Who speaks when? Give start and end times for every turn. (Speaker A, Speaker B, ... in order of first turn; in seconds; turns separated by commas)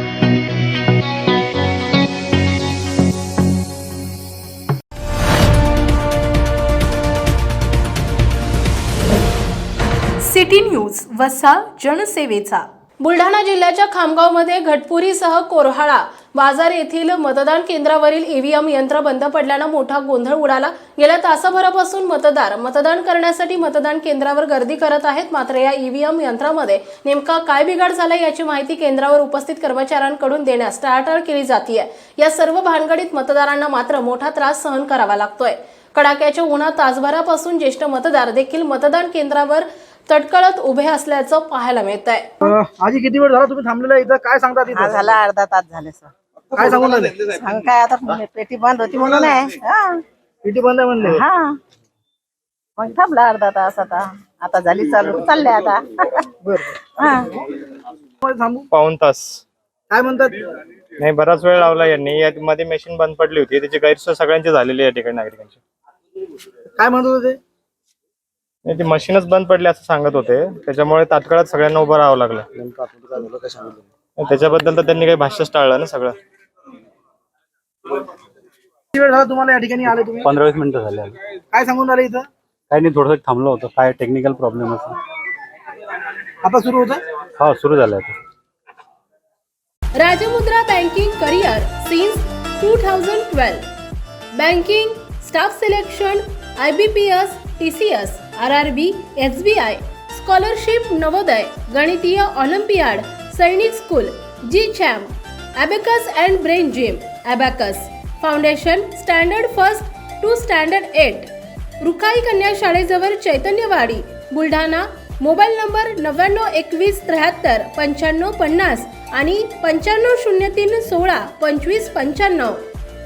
Speaker A: 10.2-42.5, Speaker B: 42.4-45.0, Speaker C: 44.7-50.0, Speaker B: 46.6-47.2, Speaker B: 50.4-51.2, Speaker C: 51.0-51.6, Speaker C: 52.8-56.3, Speaker B: 56.4-56.8, Speaker C: 56.8-57.5, Speaker B: 58.2-58.7, Speaker D: 58.7-59.4, Speaker B: 59.9-60.5, Speaker D: 61.0-65.6, Speaker B: 66.8-67.4, Speaker D: 68.7-76.2, Speaker B: 78.9-80.3, Speaker E: 80.2-81.2, Speaker B: 81.5-82.3, Speaker E: 82.7-85.0, Speaker B: 86.4-87.0, Speaker E: 87.4-88.2, Speaker A: 90.0-93.6, Speaker A: 94.3-122.6